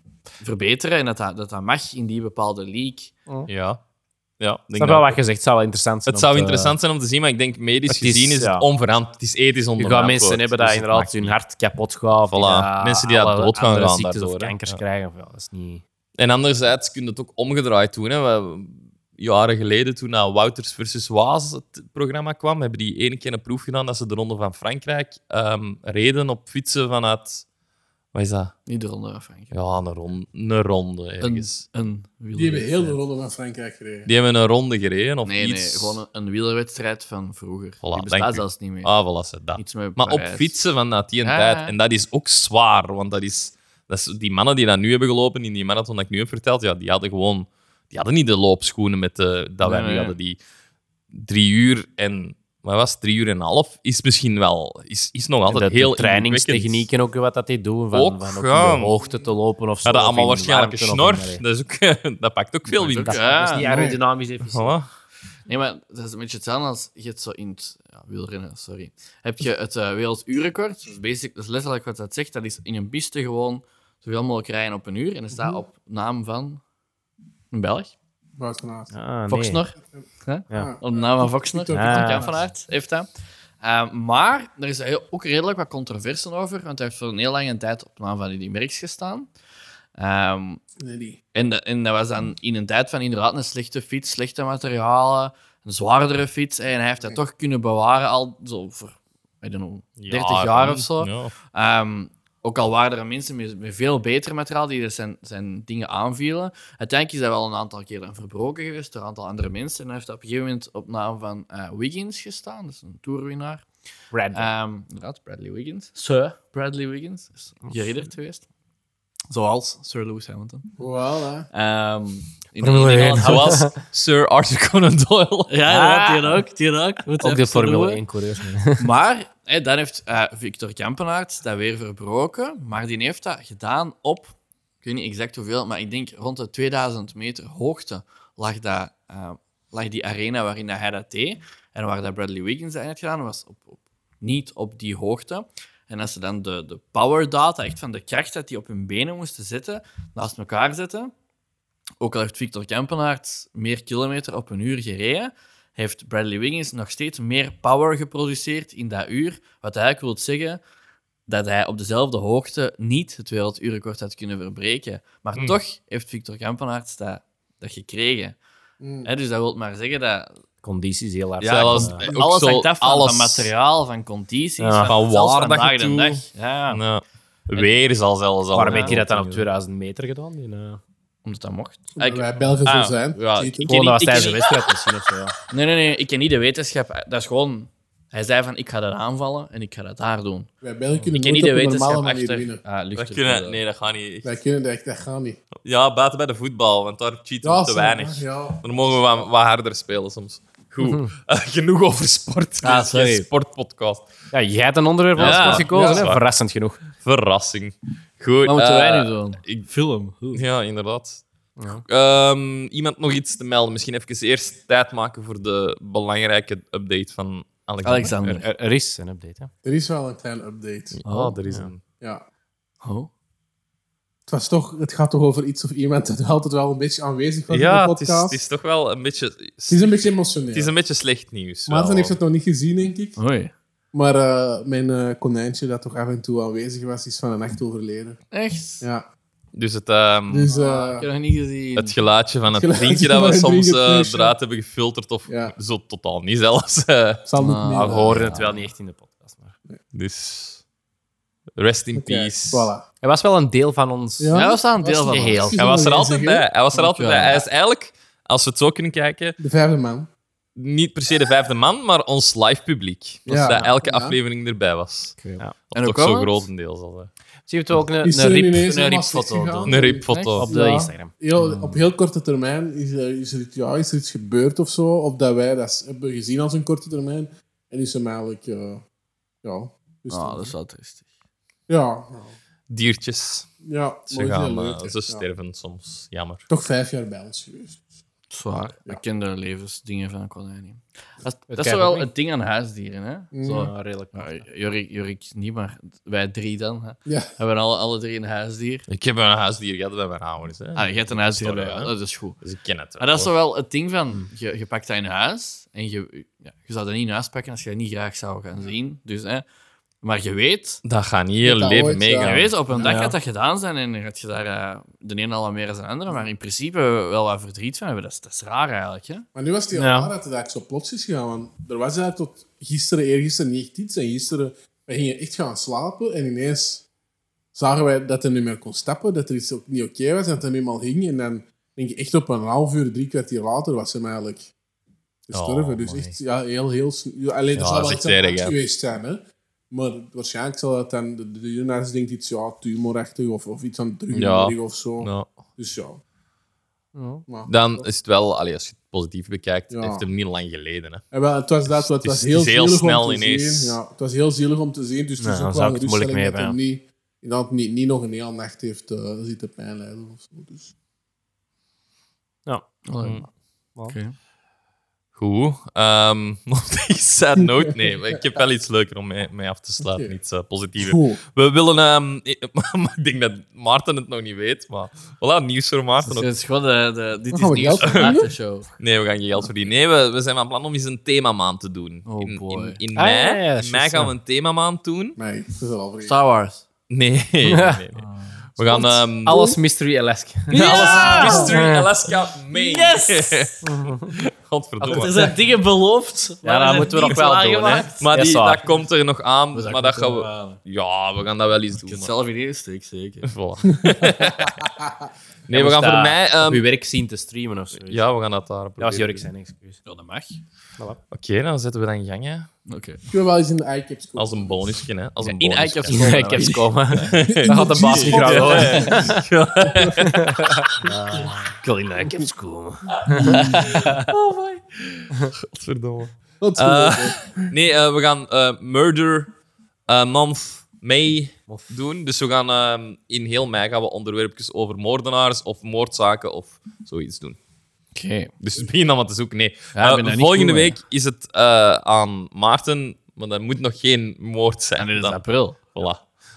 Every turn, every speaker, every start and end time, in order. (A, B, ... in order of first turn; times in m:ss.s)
0:00.4-0:03.1 A
0:03.5-0:03.8 B
0:04.4-0:05.2 B
0:04.7-0:06.8 C
0:06.0-0:11.4 B
0:07.9-0:08.6 C
0:09.8-0:15.8 C
0:12.3-0:14.8 B
0:16.2-0:27.4 B
0:28.1-0:28.5 B
0:28.7-0:29.5 A
0:29.5-0:31.6 B
0:31.2-0:33.0 A
0:32.3-0:34.1 D
0:34.0-0:36.0 B
0:35.2-0:39.0 A
0:37.8-0:50.4 B
0:39.6-0:40.6 A
0:41.2-0:41.7 A
0:49.6-0:50.2 A
0:51.1-0:56.9 B
0:55.5-1:01.4 C
0:57.9-0:59.0 B
0:59.0-0:59.3 D
0:59.8-1:03.3 B
1:02.7-1:03.7 A
1:03.0-1:04.7 C
1:03.7-1:04.0 D
1:04.4-1:04.9 B
1:05.5-1:16.6 A
1:15.3-1:15.6 D
1:17.5-1:17.9 A
1:18.4-1:18.9 D
1:18.9-1:19.6 C
1:19.3-1:23.1 A
1:20.5-1:22.5 D
1:21.7-1:22.3 C
1:23.6-1:29.3 A
1:30.0-1:30.6 A
1:30.8-1:31.2 D
1:31.3-1:53.6 A
1:40.0-1:41.3 B
1:54.1-1:54.5 C
1:54.3-1:58.4 A
1:59.3-2:00.7 A
2:00.8-2:01.5 D
2:01.5-2:03.6 A
2:02.6-2:03.7 C
2:02.8-2:05.5 B
2:05.5-2:08.0 A
2:05.6-2:06.4 C
2:07.2-2:08.9 C
2:08.8-2:31.1 A
2:32.0-2:40.6 A
2:41.3-2:48.4 A
2:48.8-2:49.1 D
2:49.0-2:50.3 A
2:50.6-2:52.0 C
2:51.4-2:53.5 B
2:51.6-2:56.8 A
2:54.6-2:54.9 C
2:54.8-2:59.4 B
2:58.5-3:00.8 C
2:58.6-2:58.9 A
3:01.2-3:04.6 A
3:02.0-3:03.7 D
3:03.7-3:05.3 C
3:05.5-3:10.5 A
3:10.6-3:12.6 D
3:11.0-3:13.6 A
3:13.0-3:14.3 B
3:14.2-3:15.4 D
3:15.6-3:24.1 B
3:17.4-3:19.2 D
3:22.6-3:23.3 A
3:24.3-3:26.8 C
3:25.2-3:26.2 B
3:25.2-3:26.0 A
3:25.7-3:26.1 D
3:27.0-3:29.6 B
3:28.4-3:30.4 A
3:30.3-3:31.2 B
3:31.6-3:31.8 C
3:31.8-3:38.4 B
3:37.8-3:38.4 A
3:38.4-3:39.5 C
3:39.6-3:41.0 D
3:40.9-3:41.8 B
3:41.0-3:41.4 A
3:42.8-3:43.1 A
3:44.3-3:48.4 D
3:47.5-3:52.2 B
3:49.7-3:50.7 D
3:51.7-3:53.2 D
3:53.2-3:53.5 A
3:53.9-3:58.2 D
3:58.3-3:58.8 A
3:59.5-4:00.5 B
4:00.3-4:01.1 D
4:00.5-4:01.9 A
4:01.8-4:07.2 B
4:02.5-4:04.3 D
4:05.3-4:05.5 D
4:07.2-4:08.4 D
4:07.4-4:08.6 A
4:07.7-4:09.5 C
4:09.9-4:10.6 B
4:11.6-4:12.7 B
4:11.9-4:12.8 D
4:13.0-4:14.4 C
4:14.2-4:16.5 D
4:14.3-4:15.6 A
4:15.1-4:15.6 C
4:15.6-4:19.4 B
4:16.7-4:17.5 A
4:19.4-4:20.1 D
4:20.6-4:25.2 B
4:23.3-4:24.2 D
4:25.2-4:26.5 A
4:25.7-4:27.1 B
4:27.5-4:29.8 C
4:28.0-4:38.8 D
4:29.7-4:30.5 B
4:30.1-4:30.4 A
4:30.4-4:31.8 C
4:39.4-4:40.5 D
4:40.1-4:41.0 A
4:41.7-4:42.4 D
4:42.7-4:43.5 B
4:43.6-4:45.2 D
4:44.1-4:46.4 B
4:46.5-4:47.8 D
4:48.3-4:58.8 A
4:51.5-4:52.1 C
4:53.3-4:53.7 D
4:53.5-4:54.4 C
4:58.9-5:03.3 B
5:00.8-5:02.4 A
5:03.0-5:09.4 A
5:10.0-5:10.8 A
5:10.8-5:12.5 B
5:11.4-5:13.0 D
5:12.2-5:19.2 A
5:12.8-5:13.2 C
5:19.3-5:26.8 D
5:19.7-5:20.1 C
5:27.5-5:34.5 D
5:35.3-5:39.2 D
5:35.3-5:36.2 B
5:37.5-5:38.5 B
5:39.7-5:46.0 D
5:44.1-5:45.3 B
5:46.9-5:47.2 C
5:47.4-5:51.0 B
5:49.7-5:50.0 D
5:51.1-6:00.7 D
5:51.8-5:53.8 B
5:55.2-5:56.6 C
6:02.8-6:03.3 A
6:03.0-6:03.2 B
6:03.9-6:04.1 A
6:05.2-6:16.3 B
6:07.4-6:08.2 D
6:09.8-6:10.2 D
6:10.8-6:11.2 D
6:16.0-6:18.7 A
6:17.3-6:18.3 D
6:17.8-6:18.2 B
6:18.8-6:25.2 B
6:22.0-6:22.8 A
6:22.9-6:24.1 C
6:25.2-6:26.1 D
6:26.0-6:26.6 A
6:26.9-6:28.0 B
6:27.4-6:27.8 C
6:28.0-6:29.0 A
6:28.6-6:29.5 B
6:29.2-6:31.8 C
6:30.5-6:31.6 A
6:30.5-6:35.3 B
6:30.6-6:31.5 D
6:32.5-6:33.6 A
6:33.6-6:34.1 C
6:34.8-6:38.0 A
6:36.4-6:38.6 C
6:38.0-6:42.1 B
6:39.5-6:40.6 A
6:41.8-6:43.3 A
6:43.2-6:44.7 B
6:43.9-6:44.9 D
6:45.5-6:46.6 B
6:45.5-6:48.1 C
6:47.8-6:49.3 B
6:48.8-6:49.8 C
6:49.8-6:50.4 A
6:51.1-6:52.5 B
6:52.7-6:53.0 A
6:53.1-6:54.6 D
6:54.2-7:00.8 B
6:55.2-6:56.8 A
6:55.9-6:59.2 C
6:57.3-7:00.1 D
6:58.0-6:59.2 A
7:00.2-7:04.0 C
7:03.1-7:03.7 D
7:03.1-7:09.3 B
7:03.2-7:03.9 A
7:06.4-7:07.4 D
7:09.9-7:17.4 B
7:17.9-7:18.3 A
7:18.4-7:26.1 B
7:19.7-7:20.8 A
7:24.8-7:25.7 A